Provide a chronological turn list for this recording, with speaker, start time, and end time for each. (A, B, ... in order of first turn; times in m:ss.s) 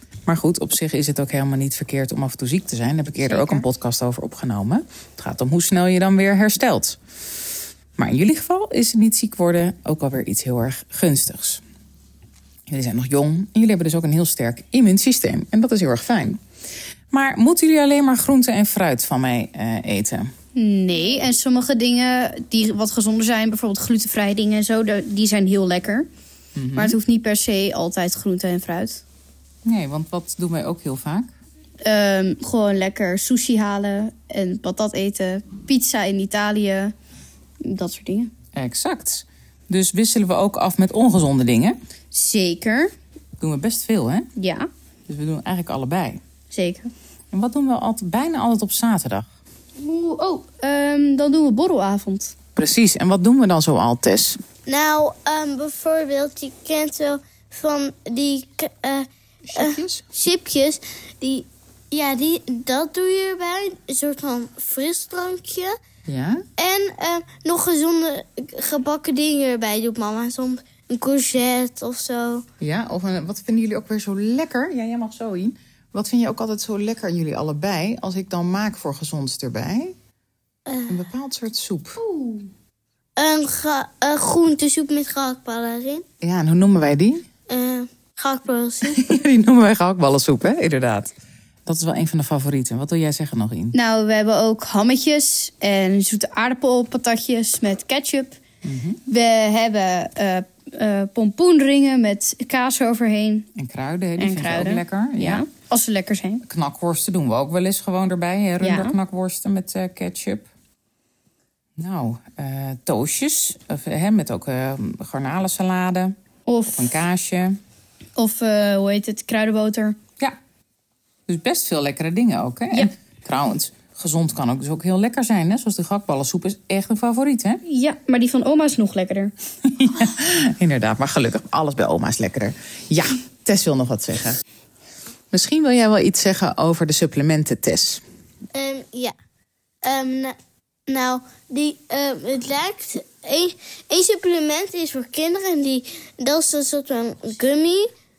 0:00.2-0:07.0 A
0:03.2-0:03.6 B
0:08.0-0:11.6 A
0:12.7-0:16.4 A
0:17.1-0:20.3 A
0:20.5-0:26.1 B
0:26.6-0:27.0 A
0:26.7-0:29.0 B
0:29.6-0:31.3 A
0:31.8-0:36.9 B
0:37.6-0:38.3 B
0:38.5-0:41.8 A
0:42.1-0:42.9 B
0:43.4-0:44.3 A
0:44.4-0:44.6 B
0:45.1-0:46.2 A
0:46.5-0:46.9 B
0:47.3-0:49.3 A
0:49.8-0:52.3 B
0:52.6-0:54.4 A
0:54.6-1:05.7 C
0:59.4-1:00.1 A
1:06.0-1:06.4 A
1:06.6-1:12.4 C
1:12.6-1:19.9 A
1:20.7-1:21.0 C
1:20.9-1:22.0 A
1:22.0-1:22.5 B
1:23.2-1:26.0 C
1:26.2-1:27.2 A
1:27.5-1:29.1 C
1:28.8-1:31.1 A
1:31.6-1:33.8 A
1:33.7-1:38.4 B
1:38.6-1:39.0 A
1:39.1-1:43.4 B
1:43.5-1:45.4 A
1:44.2-1:46.4 B
1:46.5-1:50.5 A
1:48.6-1:49.0 B
1:51.8-1:56.1 A
1:56.5-1:56.9 B
1:56.7-1:57.6 A
1:58.2-2:00.0 B
2:01.3-2:07.6 A
2:07.6-2:09.3 B
2:09.6-2:14.4 A
2:15.3-2:18.0 A
2:18.5-2:19.1 C
2:19.8-2:20.3 C
2:20.9-2:27.9 C